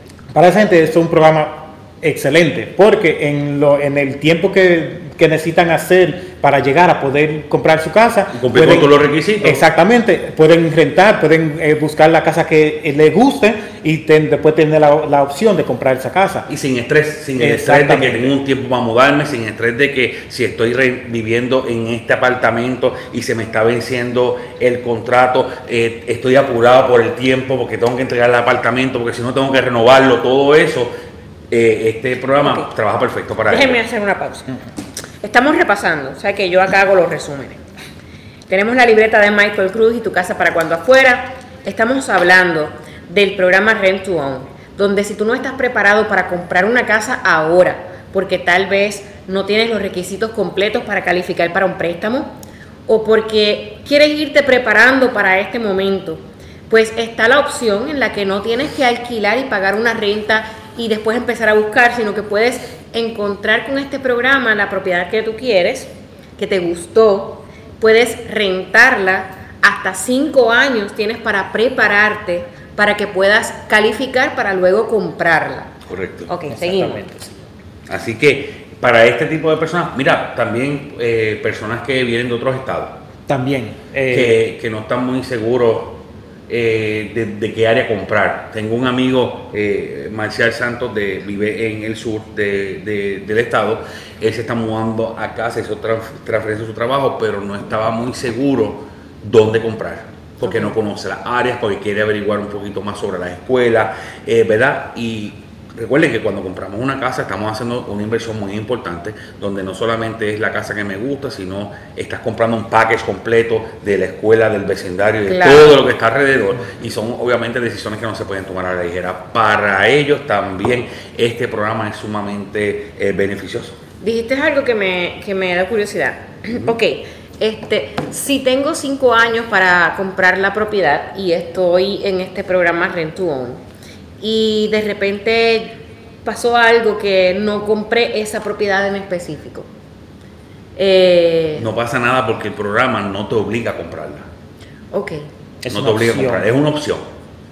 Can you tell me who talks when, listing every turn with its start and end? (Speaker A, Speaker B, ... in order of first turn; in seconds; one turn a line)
Speaker A: 0.3-16.5
Speaker B: 8.3-9.6
Speaker B: 16.5-30.9
Speaker A: 17.4-18.3
Speaker B: 31.5-33.8
Speaker C: 32.4-32.7
Speaker C: 33.5-34.6
Speaker C: 35.2-37.6
Speaker C: 38.5-52.4
Speaker C: 52.9-75.7
Speaker B: 75.8-76.3
Speaker C: 76.3-77.0
Speaker A: 76.5-77.3
Speaker B: 77.9-83.0
Speaker A: 83.3-84.4
Speaker B: 84.1-123.8
Speaker C: 100.4-100.8
Speaker C: 115.2-115.8
Speaker C: 124.0-133.6
Speaker C: 134.2-139.7
Speaker C: 140.8-141.7
Speaker B: 141.6-144.3
Speaker C: 144.9-145.3
Speaker A: 145.6-146.5
Speaker B: 145.7-147.1